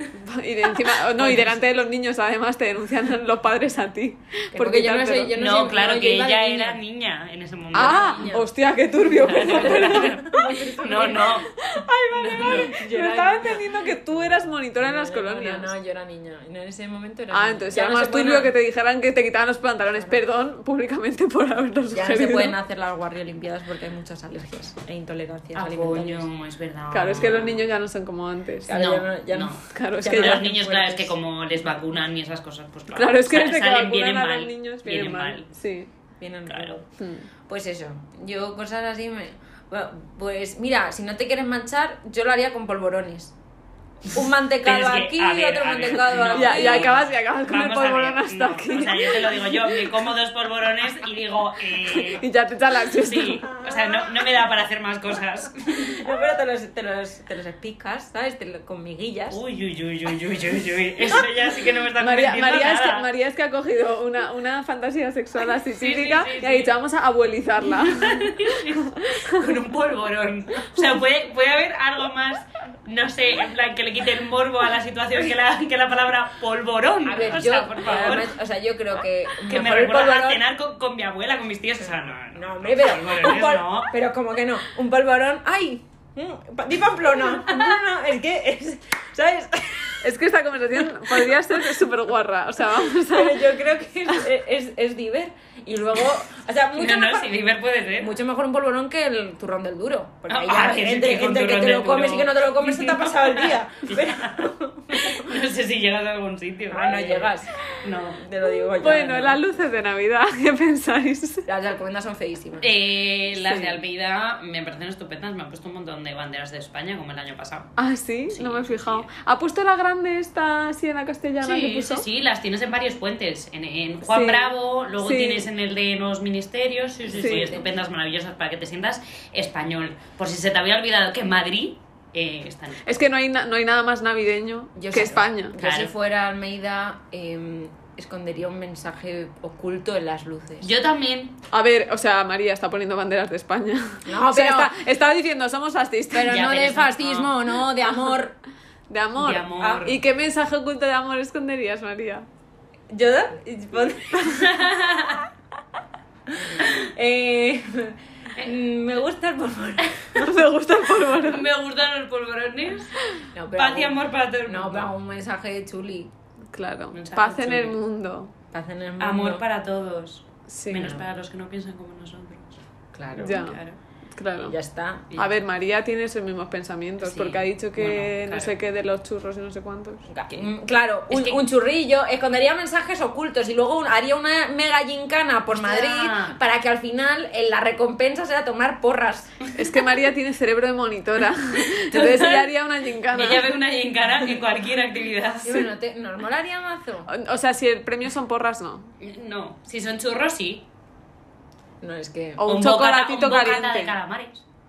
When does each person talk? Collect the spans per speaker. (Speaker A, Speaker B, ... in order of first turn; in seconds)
Speaker A: 0.2-5.3, 7.7-10.3, 11.6-15.7, 17.3-22.6, 26.9-28.8, 29.7-30.5, 32.9-35.9, 37.0-37.3, 46.3-49.9, 51.7-53.5, 62.0-68.3, 69.0-69.5, 90.0-93.5, 108.8-111.5, 113.4-113.8, 117.8-122.1, 124.1-125.5, 127.1-127.5, 132.8-135.6, 141.5-146.4, 148.9-152.3, 160.2-161.5, 166.5-168.3, 170.5-171.0, 173.2-173.6, 174.2-174.6, 175.2-180.1, 189.6-193.6, 197.1-198.9, 202.4-203.9
Speaker B: 1.2-1.6, 4.5-6.8, 7.7-8.5, 9.2-11.5, 12.3-14.3, 14.8-18.5, 21.9-26.3, 28.6-31.2, 36.2-36.9, 37.5-43.4, 44.1-47.1, 53.5-54.3, 55.8-59.4, 77.1-80.4, 82.3-90.1, 91.1-91.5, 92.8-97.4, 98.0-105.3, 106.7-107.5, 108.2-109.4, 111.5-112.8, 127.1-127.7, 134.8-140.7, 144.1-144.7, 146.1-148.3, 149.6-149.8, 152.9-154.5, 156.3-160.5, 163.3-166.1, 168.5-169.4, 172.9-173.6, 174.4-175.1, 180.1-189.3, 195.4-197.1, 201.8-202.5
Speaker C: 5.4-8.3, 9.1-11.6, 12.1-12.7, 25.5-27.7, 28.7-35.5, 36.5-36.8, 44.6-52.2, 53.0-56.0, 59.3-63.1, 65.7-66.7, 67.7-78.3, 79.3-83.9, 87.5-87.7, 96.8-98.2, 100.3-108.2, 112.6-117.7, 118.3-119.1, 121.4-133.0, 135.6-135.9, 140.6-141.4, 146.3-147.4, 149.2-150.0, 154.2-155.3, 161.2-163.0, 163.5-164.9, 166.9-167.8, 169.0-172.6, 173.2-173.8, 177.0-178.6, 181.1-181.4, 185.6-186.4, 191.6-192.5, 193.1-195.7, 199.0-200.7, 202.5-204.5